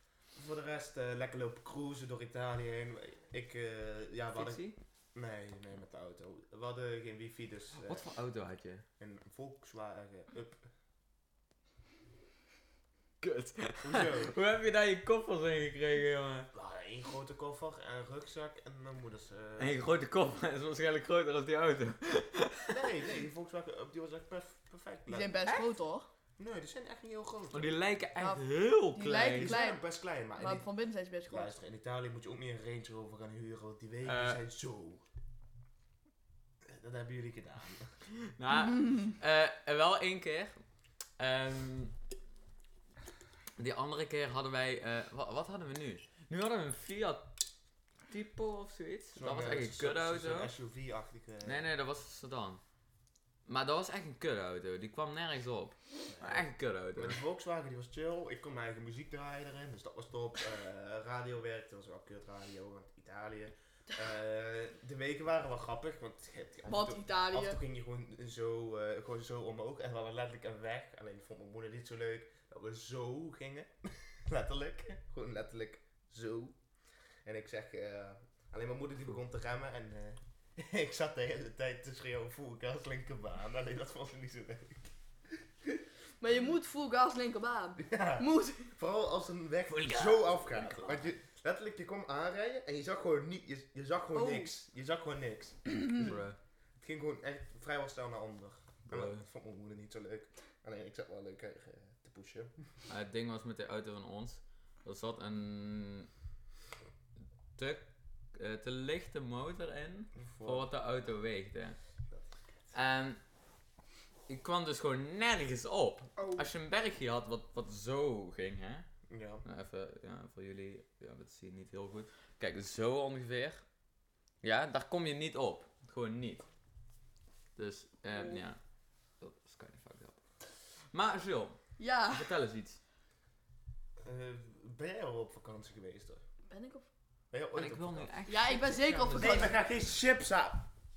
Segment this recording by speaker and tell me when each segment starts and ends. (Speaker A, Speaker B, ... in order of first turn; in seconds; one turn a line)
Speaker A: 0.3-8.1
Speaker B: 4.3-4.8
Speaker B: 7.8-8.8
Speaker A: 9.0-10.6
Speaker B: 13.2-16.5
Speaker A: 13.8-14.3
Speaker A: 16.5-19.8
Speaker B: 19.6-22.8
Speaker A: 22.7-25.4
Speaker C: 25.1-26.1
Speaker A: 26.4-27.7
Speaker B: 27.5-29.6
Speaker C: 28.2-29.8
Speaker A: 29.4-30.6
Speaker C: 30.4-31.5
Speaker A: 31.3-35.0
Speaker B: 34.0-34.4
Speaker A: 36.6-38.0
Speaker B: 38.1-40.6
Speaker B: 41.2-41.9
Speaker B: 43.6-47.3
Speaker B: 48.1-50.5
Speaker A: 49.1-51.6
Speaker B: 51.4-52.6
Speaker B: 53.5-57.2
Speaker A: 56.1-76.5
Speaker C: 66.7-67.6
Speaker A: 77.2-84.9
Speaker C: 86.2-88.7
Speaker A: 87.8-96.1
Speaker B: 89.7-91.1
Speaker C: 94.1-94.5
Speaker B: 96.0-96.4
Speaker A: 96.8-102.5
Speaker B: 98.9-99.2
Speaker B: 102.9-106.1
Speaker B: 107.5-111.8
Speaker A: 110.2-110.7
Speaker B: 112.7-113.2
Speaker B: 114.3-118.8
Speaker C: 116.2-116.4
Speaker A: 119.1-119.4
Speaker B: 119.4-123.6
Speaker B: 124.4-126.5
Speaker B: 127.5-128.6
Speaker C: 128.1-128.4
Speaker B: 129.2-130.2
Speaker B: 130.8-132.8
Speaker C: 131.8-132.3
Speaker A: 134.0-136.2
Speaker C: 136.5-136.8
Speaker A: 137.3-138.1
Speaker B: 137.5-139.5
Speaker C: 138.3-139.5
Speaker A: 139.1-140.7